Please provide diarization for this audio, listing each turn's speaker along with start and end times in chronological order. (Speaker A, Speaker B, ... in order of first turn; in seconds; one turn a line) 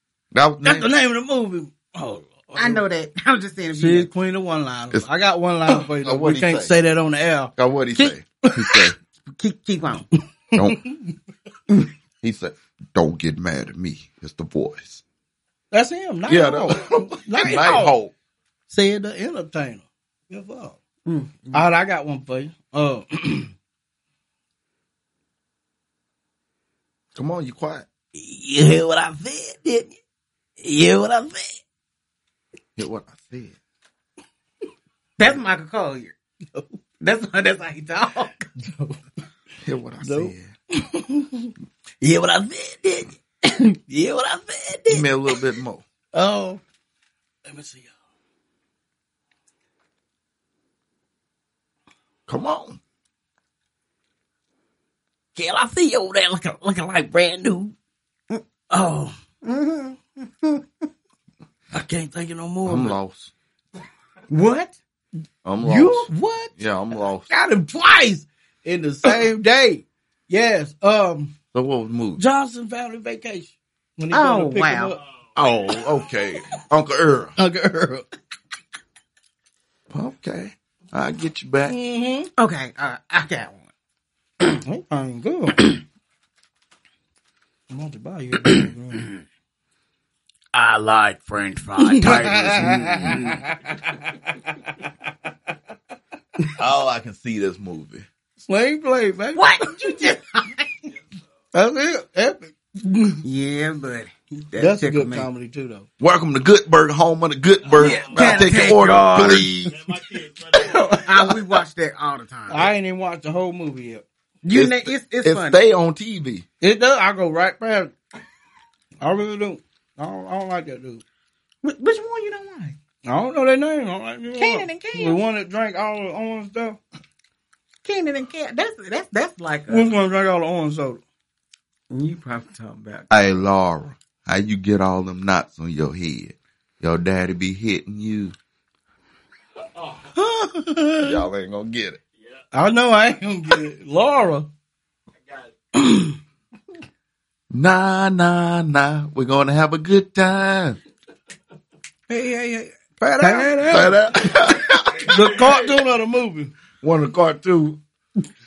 Speaker A: 0.3-0.9
Speaker B: 0.6-2.8
Speaker C: 2.6-4.1
Speaker B: 3.8-7.5
Speaker A: 5.7-6.7
Speaker A: 7.6-8.9
Speaker B: 8.5-8.8
Speaker C: 9.3-10.1
Speaker B: 10.5-11.1
Speaker A: 10.5-10.8
Speaker A: 12.2-15.0
Speaker B: 15.7-17.9
Speaker A: 16.3-18.1
Speaker B: 18.7-20.8
Speaker C: 21.1-21.6
Speaker B: 21.5-23.5
Speaker A: 27.1-27.9
Speaker B: 28.1-30.0
Speaker B: 30.6-31.6
Speaker A: 32.8-33.6
Speaker C: 35.2-36.1
Speaker C: 37.0-38.5
Speaker B: 38.6-39.0
Speaker A: 39.6-40.5
Speaker B: 40.0-45.3
Speaker A: 44.9-45.8
Speaker B: 46.1-46.6
Speaker B: 47.5-47.9
Speaker A: 52.3-52.8
Speaker B: 55.4-57.8
Speaker B: 58.7-59.1
Speaker C: 59.4-60.6
Speaker B: 61.7-63.0
Speaker A: 62.7-63.3
Speaker C: 64.3-64.8
Speaker A: 65.4-67.3
Speaker B: 65.6-66.5
Speaker B: 67.3-71.3
Speaker A: 71.5-72.2
Speaker B: 72.2-75.0
Speaker C: 74.1-75.0
Speaker A: 75.4-77.3
Speaker B: 77.4-78.1
Speaker A: 79.9-81.8
Speaker B: 81.7-82.3
Speaker C: 82.4-83.7
Speaker B: 84.7-85.7
Speaker B: 87.7-89.1
Speaker D: 90.5-93.4
Speaker B: 91.8-94.9
Speaker A: 96.5-98.1
Speaker B: 98.4-100.1
Speaker C: 99.3-100.7
Speaker B: 101.5-103.2
Speaker C: 103.2-105.3
Speaker B: 104.6-105.9
Speaker A: 106.0-109.8
Speaker E: 107.7-108.5
Speaker C: 107.8-109.5
Speaker B: 108.1-109.5
Speaker E: 109.6-111.1
Speaker C: 110.6-112.7
Speaker B: 112.5-114.0
Speaker C: 114.4-115.6
Speaker A: 114.5-116.5
Speaker B: 116.6-117.9
Speaker B: 119.0-121.0
Speaker C: 121.6-122.8
Speaker B: 123.0-126.8
Speaker C: 124.4-125.2
Speaker C: 127.8-129.9
Speaker B: 129.7-131.0
Speaker C: 131.9-133.1
Speaker A: 133.1-138.3
Speaker E: 139.8-140.1
Speaker B: 140.2-141.2
Speaker A: 141.0-142.0
Speaker B: 142.5-144.5
Speaker E: 145.2-145.5
Speaker B: 145.8-146.2
Speaker A: 147.5-150.8
Speaker B: 152.1-154.1
Speaker C: 153.2-153.8
Speaker A: 153.7-155.2
Speaker B: 155.0-156.5
Speaker A: 156.8-157.8